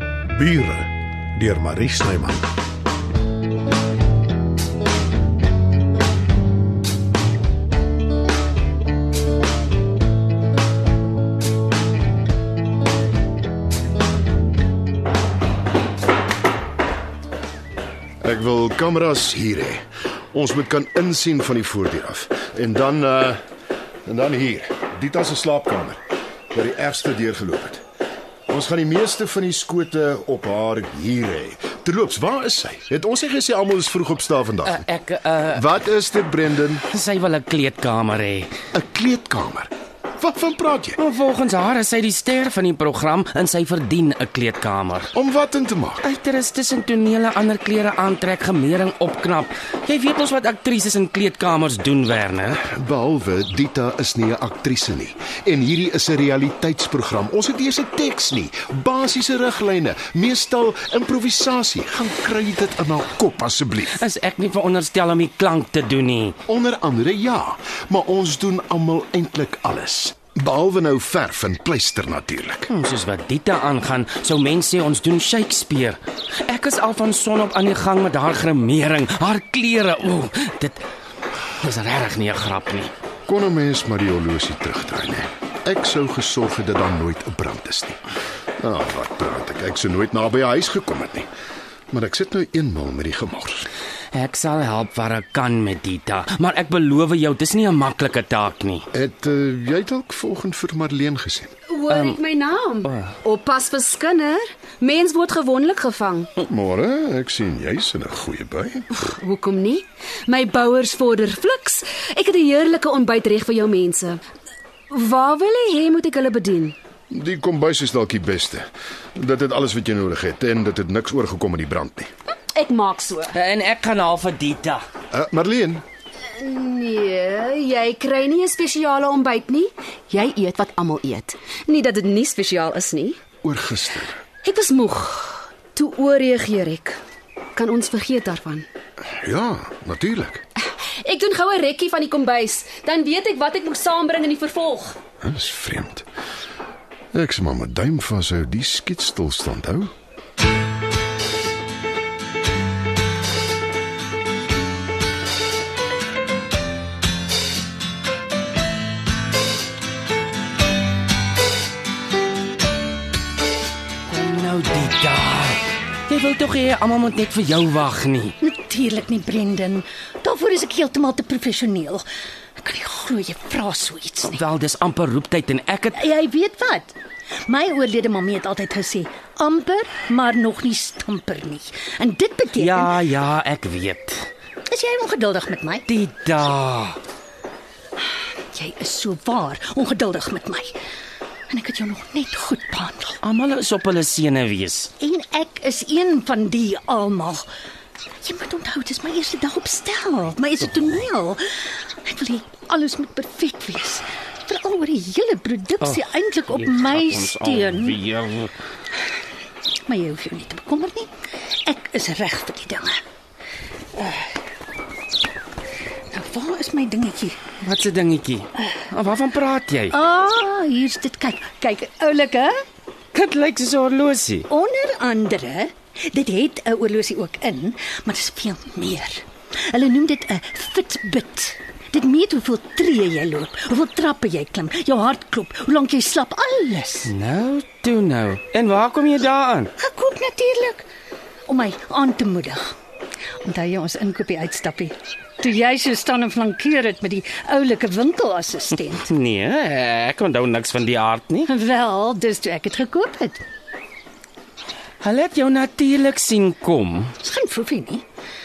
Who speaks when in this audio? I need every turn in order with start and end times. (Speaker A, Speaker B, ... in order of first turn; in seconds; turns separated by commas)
Speaker A: 0.3-2.4, Speaker B: 18.2-23.4, Speaker B: 24.1-26.0, Speaker B: 26.5-27.8, Speaker B: 28.5-34.9, Speaker C: 34.7-35.6, Speaker B: 35.5-36.8, Speaker C: 36.9-38.5, Speaker B: 38.7-41.0, Speaker C: 41.0-45.1, Speaker B: 45.1-46.0, Speaker C: 46.0-52.6, Speaker B: 52.6-64.0, Speaker C: 64.0-66.4, Speaker B: 66.5-72.7, Speaker C: 72.7-80.8, Speaker C: 81.6-82.9, Speaker B: 83.2-88.0, Speaker B: 88.6-91.3, Speaker B: 91.9-93.7, Speaker C: 94.1-98.9, Speaker B: 98.9-101.5, Speaker D: 101.7-106.3, Speaker C: 101.9-102.2, Speaker B: 106.4-108.8, Speaker D: 108.9-114.2, Speaker D: 114.9-116.8, Speaker B: 117.1-122.1, Speaker D: 122.5-123.3, Speaker C: 123.3-124.8, Speaker B: 125.1-125.8, Speaker D: 126.3-133.2, Speaker B: 133.4-134.2, Speaker D: 134.4-137.0, Speaker D: 137.5-138.7, Speaker B: 139.2-140.4, Speaker D: 141.0-145.0, Speaker B: 145.2-146.1, Speaker B: 147.1-149.9, Speaker C: 164.1-168.3, Speaker E: 168.4-172.1, Speaker E: 172.6-174.4, Speaker C: 174.3-176.0, Speaker E: 175.9-176.9, Speaker E: 177.4-182.9, Speaker C: 182.6-184.3, Speaker E: 184.7-185.8, Speaker C: 185.9-187.0, Speaker E: 188.5-190.8, Speaker E: 191.5-193.2, Speaker C: 193.2-194.9, Speaker E: 195.0-197.4, Speaker E: 198.2-208.0, Speaker C: 205.8-208.5, Speaker E: 209.9-211.1, Speaker E: 211.6-213.0, Speaker E: 213.9-214.4, Speaker E: 216.1-217.4, Speaker C: 217.6-220.0, Speaker E: 219.9-222.6, Speaker C: 223.1-224.5, Speaker E: 224.5-237.1, Speaker C: 237.0-239.7, Speaker E: 239.8-240.9, Speaker E: 241.5-242.7, Speaker E: 243.4-249.0, Speaker C: 249.1-251.5, Speaker E: 251.5-253.4, Speaker C: 255.0-257.1, Speaker E: 257.2-258.0